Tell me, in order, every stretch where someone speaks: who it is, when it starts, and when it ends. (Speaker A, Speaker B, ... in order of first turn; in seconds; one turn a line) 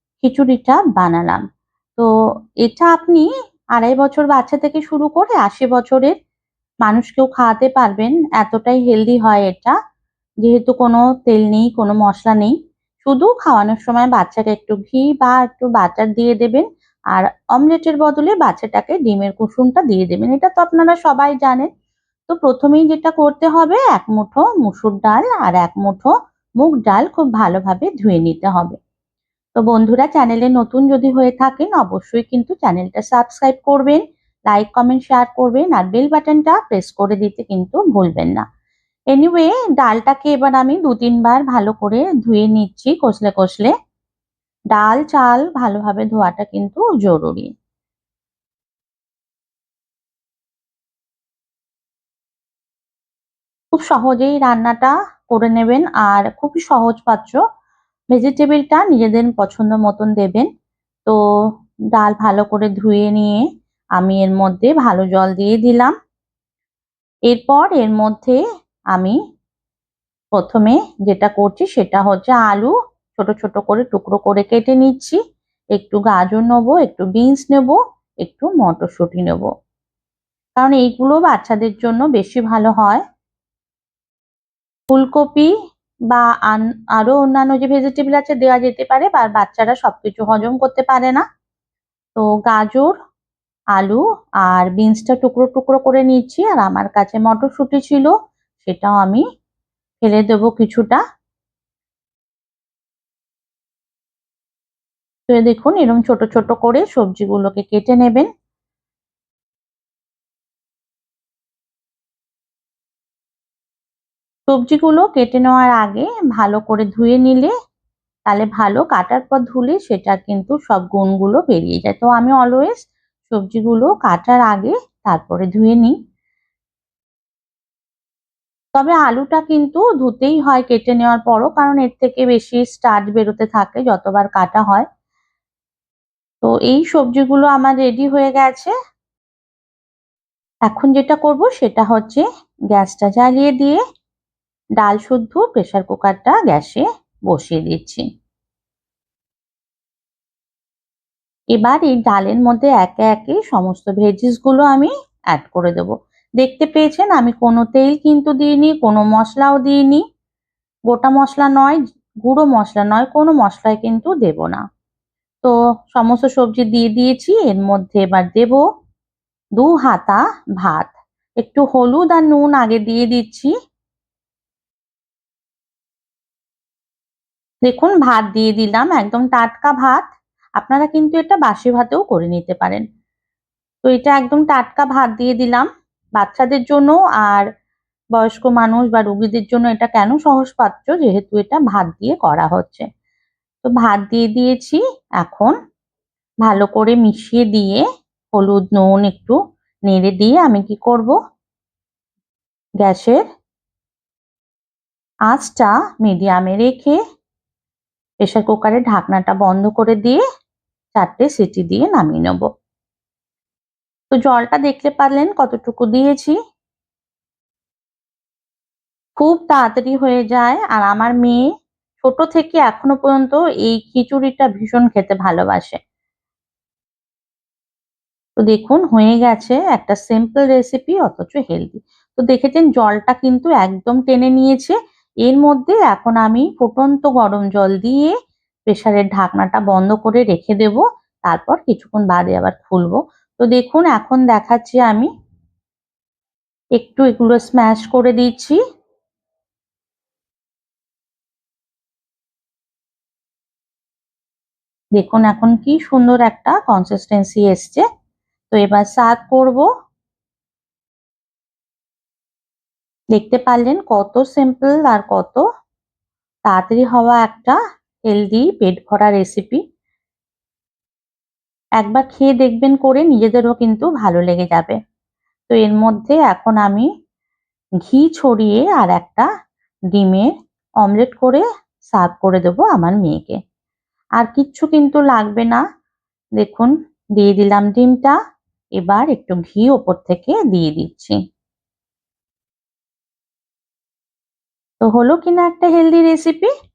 Speaker A: 0.2-1.4
Speaker A: 2.6-6.2
Speaker A: 6.8-9.8
Speaker A: 10.4-21.7
Speaker A: 22.3-28.8
Speaker A: 29.6-38.4
Speaker A: 39.1-43.7
Speaker A: 44.7-47.5
Speaker A: 53.7-57.4
Speaker A: 58.1-60.5
Speaker A: 61.9-63.4
Speaker A: 64.0-65.9
Speaker A: 67.3-68.4
Speaker A: 70.3-75.2
Speaker A: 75.8-79.5
Speaker A: 80.6-83.0
Speaker A: 84.9-85.5
Speaker A: 86.1-91.2
Speaker A: 92.2-92.9
Speaker A: 93.8-99.2
Speaker A: 100.0-101.0
Speaker A: 105.3-108.3
Speaker A: 114.5-117.5
Speaker A: 118.3-126.0
Speaker A: 128.8-134.9
Speaker A: 136.4-138.7
Speaker A: 140.7-143.8
Speaker A: 144.8-148.1
Speaker A: 151.6-160.0
Speaker A: 160.9-164.6
Speaker A: 165.4-168.6
Speaker A: 169.6-173.5
Speaker A: 177.7-180.0
Speaker A: 180.6-182.8
Speaker A: 183.8-187.4
Speaker A: 188.1-192.9
Speaker A: 193.7-195.6
Speaker A: 196.4-197.8
Speaker A: 198.3-199.4
Speaker A: 199.9-201.2
Speaker A: 202.8-203.2
Speaker A: 205.3-207.0
Speaker A: 208.2-210.2
Speaker A: 211.0-212.5
Speaker A: 214.1-216.4
Speaker A: 219.2-221.4
Speaker A: 222.0-225.8
Speaker A: 228.4-238.1
Speaker A: 238.7-245.1
Speaker A: 246.8-248.6
Speaker A: 255.0-257.8
Speaker A: 258.5-259.7
Speaker A: 263.1-265.4
Speaker A: 266.5-267.6
Speaker A: 268.1-269.6
Speaker A: 271.8-274.8
Speaker A: 275.5-276.9
Speaker A: 277.9-279.3
Speaker A: 279.9-280.3
Speaker A: 280.8-283.4
Speaker A: 284.2-285.6
Speaker A: 286.4-288.1
Speaker A: 288.8-291.2
Speaker A: 294.8-296.5